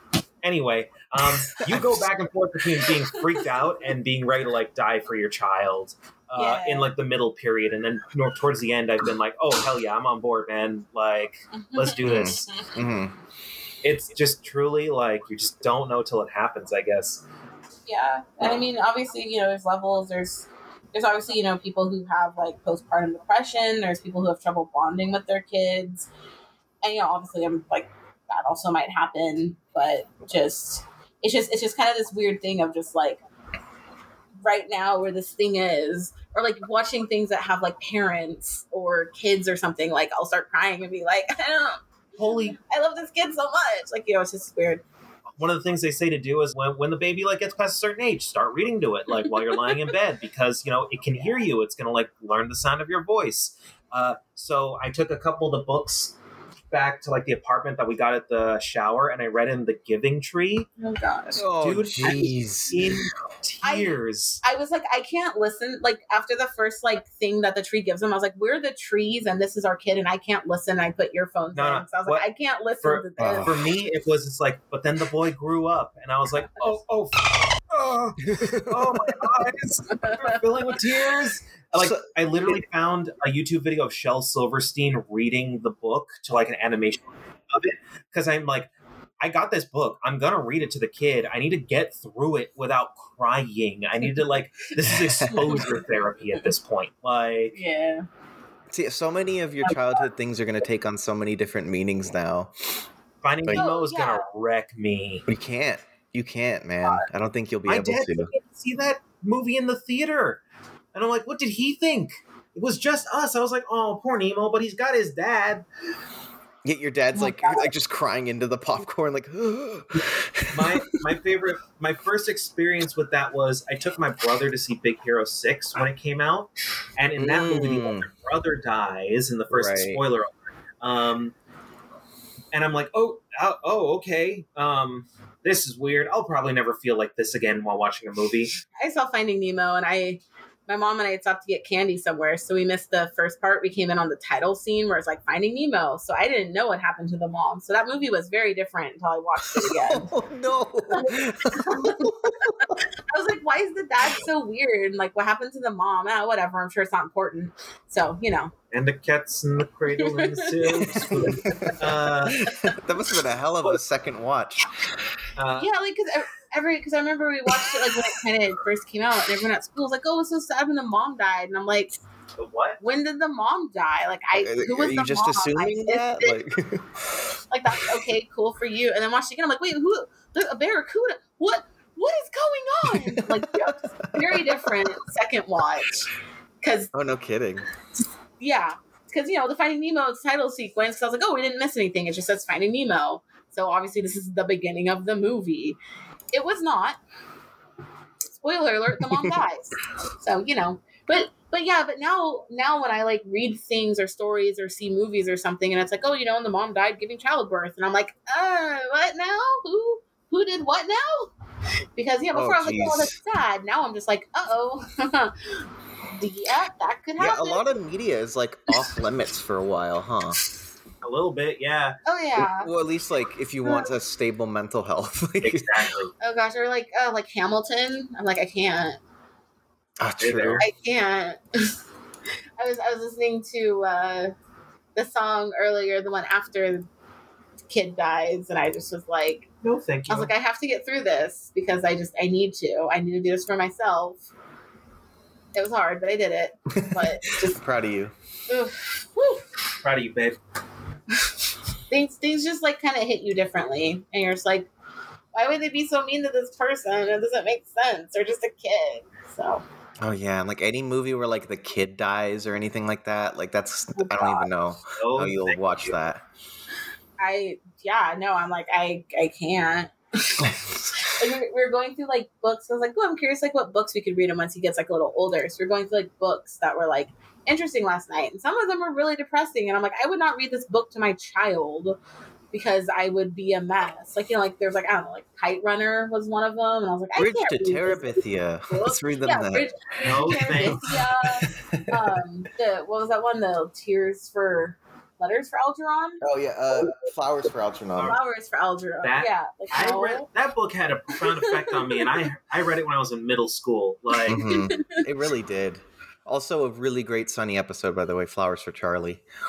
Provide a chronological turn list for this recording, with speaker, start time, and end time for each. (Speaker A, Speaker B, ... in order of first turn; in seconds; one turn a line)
Speaker A: 0.4-12.5
Speaker B: 6.4-6.9
Speaker B: 11.6-12.7
Speaker C: 12.0-13.1
Speaker A: 13.8-17.2
Speaker B: 17.9-26.1
Speaker B: 26.8-33.2
Speaker B: 34.4-41.8
Speaker A: 42.2-42.6
Speaker B: 42.4-44.8
Speaker A: 45.4-56.1
Speaker A: 56.7-60.7
Speaker B: 60.8-61.5
Speaker C: 61.3-63.0
Speaker A: 61.5-64.4
Speaker B: 63.6-73.5
Speaker A: 71.5-72.2
Speaker A: 72.8-97.5
Speaker C: 73.2-73.5
Speaker C: 78.2-79.3
Speaker B: 79.9-80.4
Speaker C: 94.8-95.7
Speaker B: 97.5-98.1
Speaker C: 98.7-102.5
Speaker B: 99.6-99.9
Speaker A: 103.2-105.2
Speaker B: 103.5-104.2
Speaker C: 105.3-108.3
Speaker A: 107.7-110.4
Speaker A: 110.9-115.6
Speaker C: 116.6-120.7
Speaker B: 117.1-117.7
Speaker A: 120.5-131.3
Speaker C: 127.2-128.1
Speaker C: 129.5-130.0
Speaker A: 132.5-138.5
Speaker B: 138.8-150.1
Speaker C: 149.4-152.5
Speaker B: 150.9-158.5
Speaker A: 158.7-162.5
Speaker B: 160.0-162.2
Speaker C: 160.8-161.7
Speaker C: 162.2-164.7
Speaker A: 165.4-165.7
Speaker B: 165.6-171.9
Speaker C: 167.6-168.2
Speaker A: 172.4-172.8
Speaker B: 172.8-176.4
Speaker C: 174.3-177.2
Speaker B: 177.5-186.1
Speaker C: 182.8-184.8
Speaker B: 186.6-186.9
Speaker C: 186.9-187.7
Speaker B: 188.4-195.8
Speaker B: 196.3-197.0
Speaker B: 198.3-211.3
Speaker C: 199.1-199.4
Speaker B: 211.9-215.4
Speaker C: 212.3-213.2
Speaker B: 216.2-217.6
Speaker C: 217.2-220.4
Speaker A: 221.0-222.0
Speaker B: 222.1-222.7
Speaker C: 222.3-225.7
Speaker B: 223.6-223.9
Speaker A: 225.4-226.1
Speaker B: 226.2-229.0
Speaker C: 230.0-230.6
Speaker A: 230.2-230.6
Speaker B: 230.6-231.7
Speaker B: 232.6-234.3
Speaker B: 234.9-236.8
Speaker B: 237.7-239.5
Speaker A: 239.6-240.3
Speaker B: 240.1-244.2
Speaker B: 245.5-247.6
Speaker C: 246.7-248.1
Speaker B: 248.5-249.4
Speaker A: 249.8-250.4
Speaker B: 251.9-254.7
Speaker B: 255.3-259.6
Speaker C: 260.0-266.2
Speaker B: 263.9-264.5
Speaker A: 265.0-266.0
Speaker B: 267.2-282.0
Speaker C: 270.4-271.1
Speaker B: 282.5-296.2
Speaker C: 287.1-292.2
Speaker A: 290.0-290.9
Speaker C: 296.2-298.2
Speaker B: 298.0-300.3
Speaker A: 299.0-304.4
Speaker B: 301.2-302.2
Speaker C: 304.3-309.2
Speaker B: 304.3-305.0